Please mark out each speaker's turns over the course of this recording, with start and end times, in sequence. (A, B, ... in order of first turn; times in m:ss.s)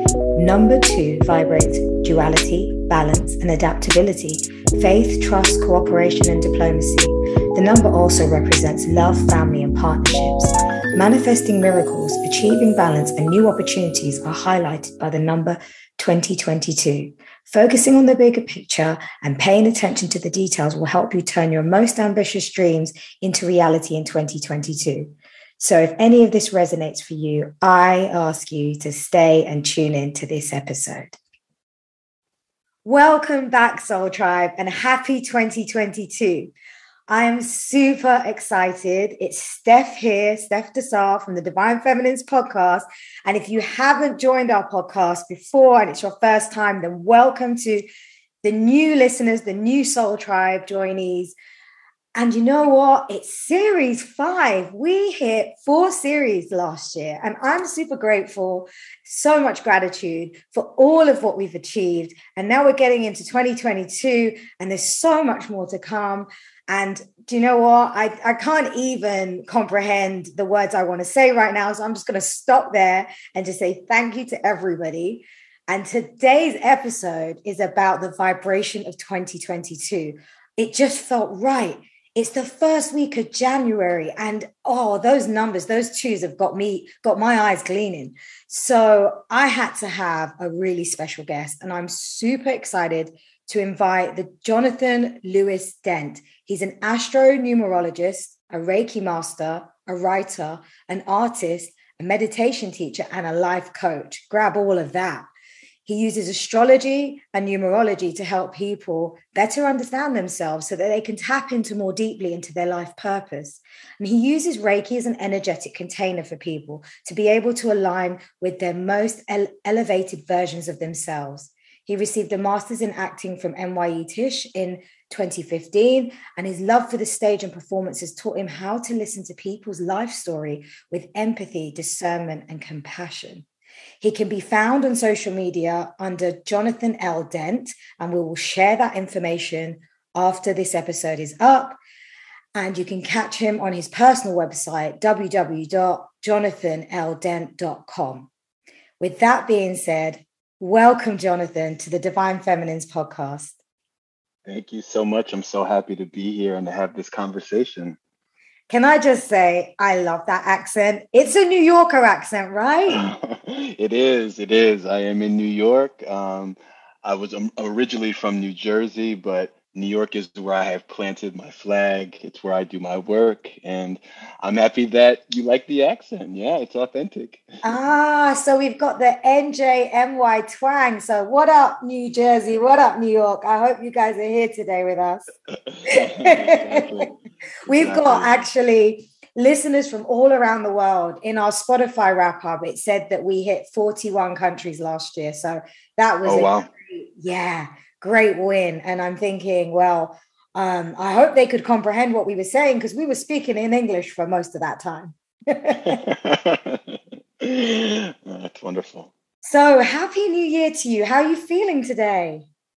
0:00.4-0:31.2 A
0:32.8-0:36.5 A
0:37.1-0:47.8 A
0:48.4-0:51.3 A
0:52.2-1:45.3 A
1:45.8-2:13.4 A
2:14.0-2:21.8 A
2:22.6-2:28.3 A
2:29.0-2:33.6 A
2:34.4-2:38.0 B
2:38.7-2:43.1 A
2:42.9-2:57.8 B
2:57.6-3:05.3 A
3:05.7-3:08.4 B
3:05.9-3:07.0 A
3:07.7-3:26.0 A
3:16.2-3:16.7 B
3:25.8-3:29.1 B
3:29.4-3:32.5 A